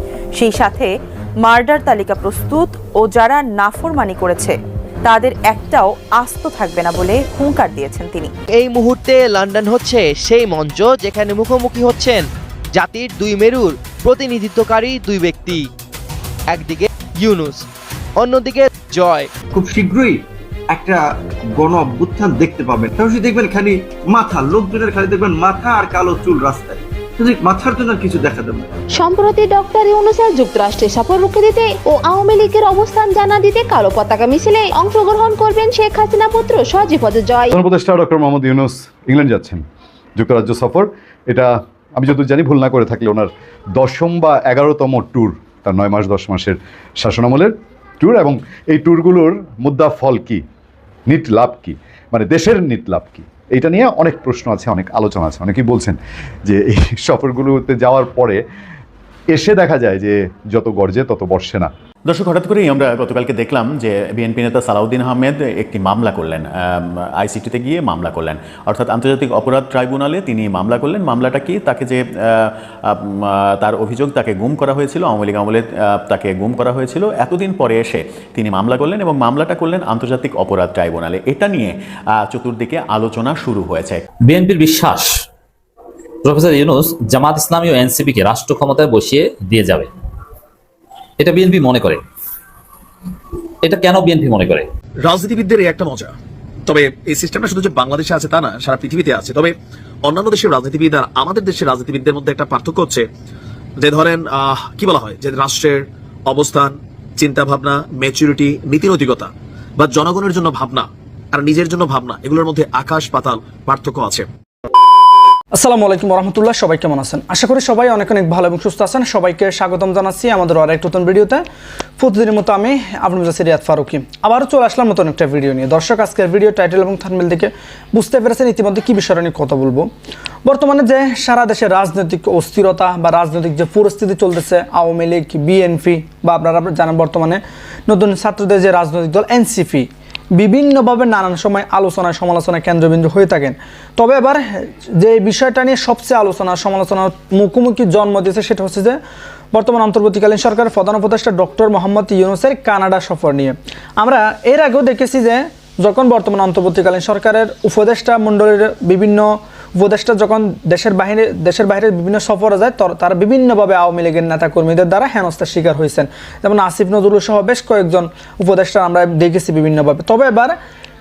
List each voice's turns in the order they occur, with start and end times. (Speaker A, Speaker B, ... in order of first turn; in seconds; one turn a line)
Speaker A: 0.3-0.9
Speaker A: 1.4-8.3
Speaker B: 8.5-15.7
Speaker B: 16.5-19.3
Speaker C: 19.5-21.0
Speaker C: 21.5-28.7
Speaker D: 28.9-37.5
Speaker E: 37.5-39.6
Speaker E: 40.2-50.4
Speaker E: 51.1-58.4
Speaker E: 59.3-61.7
Speaker F: 62.1-84.0
Speaker G: 84.3-85.2
Speaker G: 86.2-89.9
Speaker G: 91.2-92.0
Speaker G: 93.6-94.7
Speaker H: 95.0-96.1
Speaker H: 96.7-103.1
Speaker H: 103.8-114.3
Speaker I: 115.5-121.4
Speaker I: 122.0-129.9
Speaker I: 130.4-149.0
Speaker I: 149.5-170.6